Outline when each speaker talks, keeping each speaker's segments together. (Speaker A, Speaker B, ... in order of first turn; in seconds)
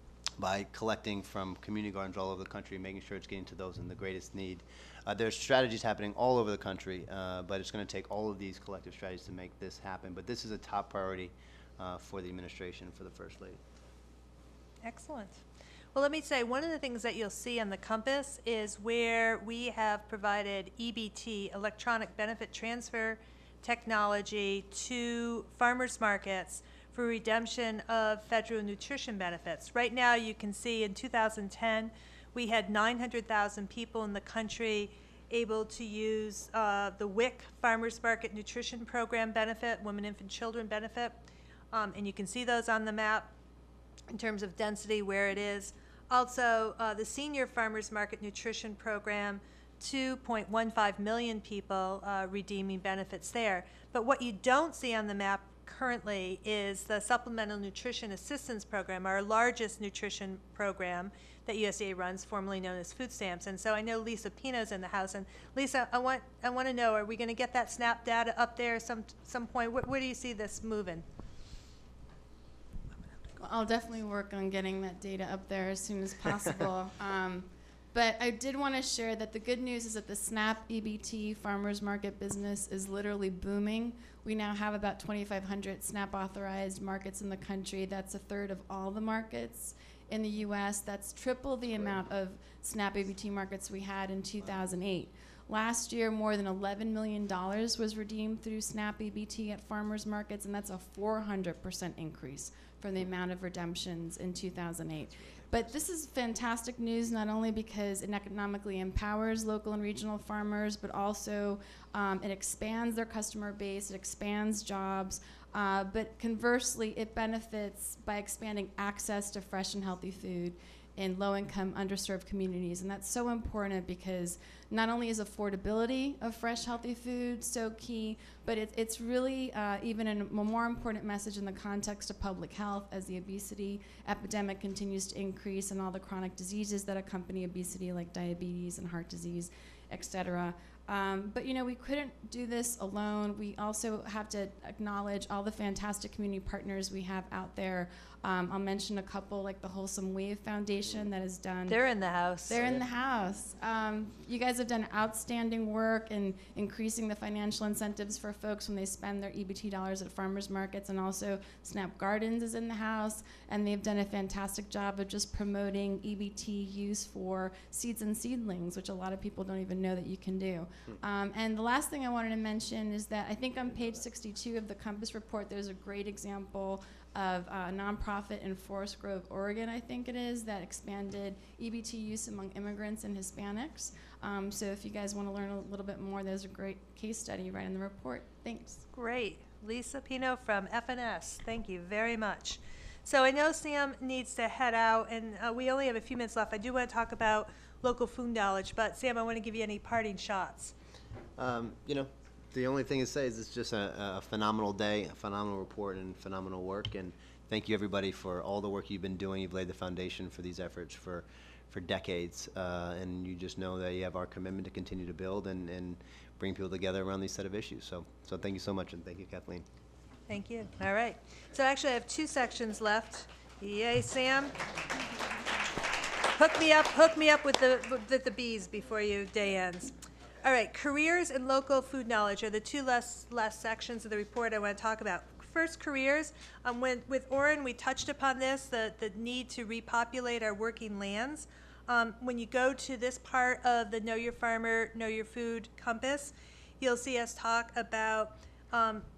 Speaker A: 0.4-13.6, 105.2-105.8, 152.5-152.8, 201.4-219.6
Speaker B: 14.8-15.4, 15.9-41.2, 41.7-43.3, 44.1-71.0, 151.7-152.6, 188.9-200.7, 220.3-224.5, 226.3-249.1
Speaker C: 73.4-151.8, 152.5-188.8